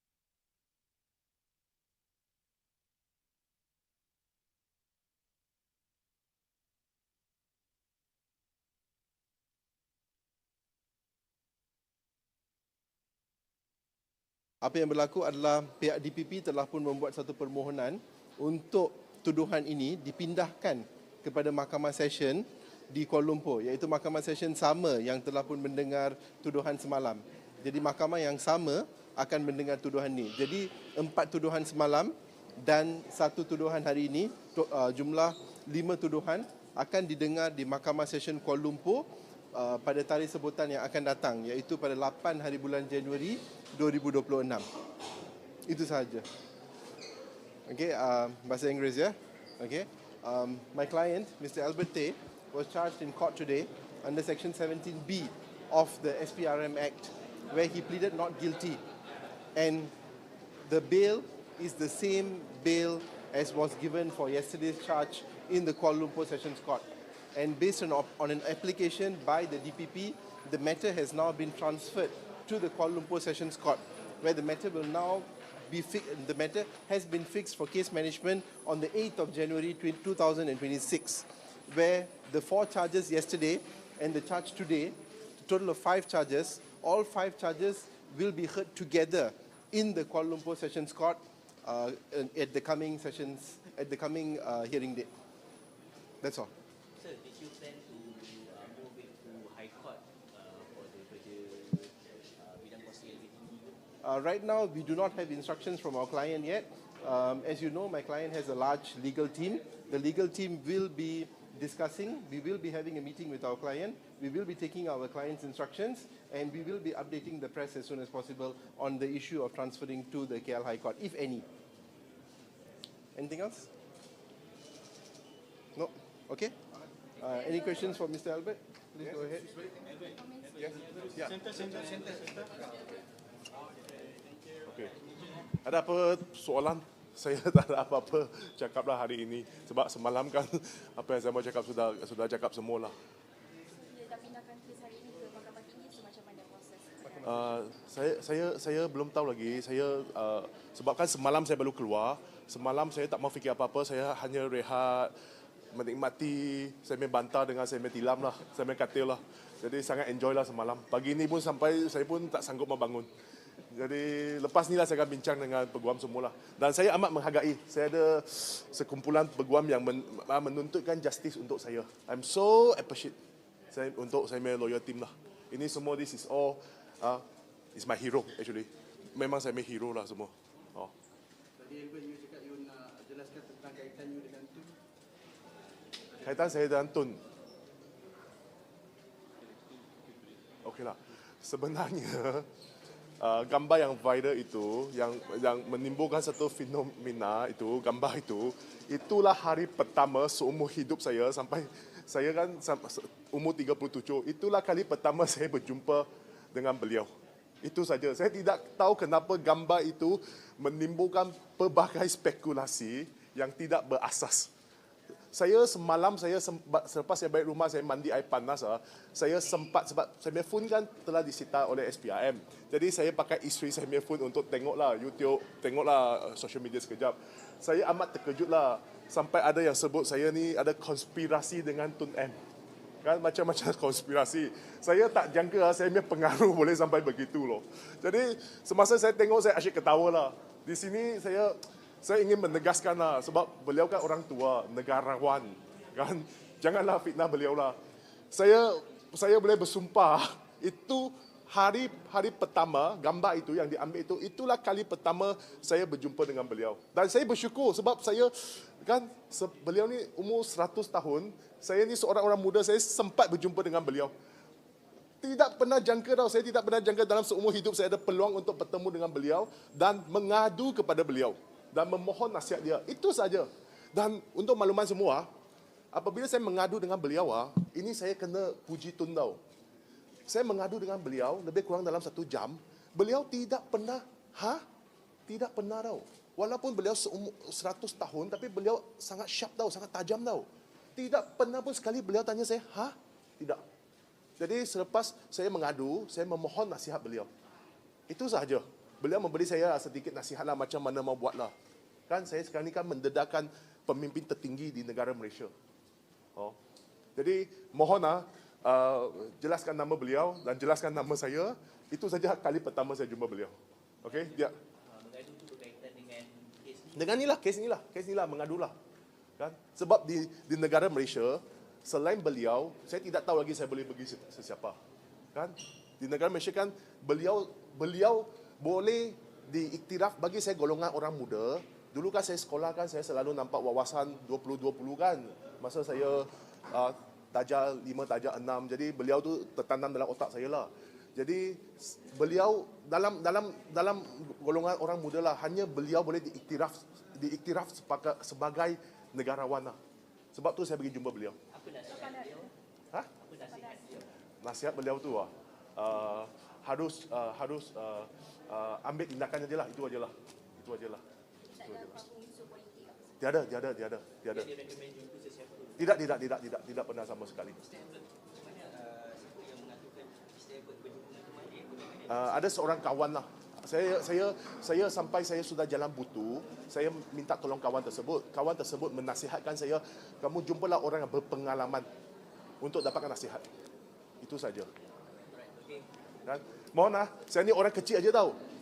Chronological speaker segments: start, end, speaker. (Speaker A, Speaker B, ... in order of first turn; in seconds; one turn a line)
Speaker A: 14.6-44.7
Speaker A: 45.7-46.3
Speaker A: 47.7-58.8
Speaker A: 59.5-59.9
Speaker A: 60.6-95.1
Speaker A: 96.2-96.5
Speaker B: 97.0-103.8
Speaker A: 104.0-121.5
Speaker A: 123.2-123.7
Speaker A: 125.8-126.5
Speaker A: 127.2-129.5
Speaker C: 131.2-131.4
Speaker C: 134.7-134.9
Speaker C: 135.6-143.0
Speaker D: 143.7-147.1
Speaker C: 147.1-155.1
Speaker C: 155.7-163.1
Speaker C: 163.7-173.2
Speaker C: 173.7-177.2
Speaker C: 177.8-180.9
Speaker E: 181.6-184.7
Speaker C: 186.2-187.2
Speaker C: 190.6-192.5
Speaker C: 193.2-207.1
Speaker C: 207.6-214.5
Speaker C: 215.3-232.4
Speaker C: 233.0-247.8
Speaker C: 248.3-264.1
Speaker C: 265.2-275.3
Speaker C: 275.9-279.4
Speaker C: 280.3-284.6
Speaker C: 285.3-293.6
Speaker C: 294.4-297.3
Speaker C: 298.1-301.5
Speaker C: 302.1-305.5
Speaker C: 307.2-314.5
Speaker B: 314.0-317.1
Speaker C: 316.9-318.8
Speaker C: 319.4-324.8
Speaker C: 325.3-349.8
Speaker C: 350.3-351.4
Speaker B: 351.5-352.5
Speaker D: 351.8-352.5
Speaker B: 353.2-354.1
Speaker D: 353.4-353.9
Speaker C: 354.4-361.0
Speaker D: 361.5-363.3
Speaker C: 361.6-362.1
Speaker C: 363.2-364.6
Speaker B: 364.3-366.1
Speaker C: 365.8-367.6
Speaker B: 367.6-372.7
Speaker C: 372.1-381.9
Speaker C: 382.6-383.4
Speaker C: 384.2-384.7
Speaker B: 385.4-385.9
Speaker C: 386.3-388.4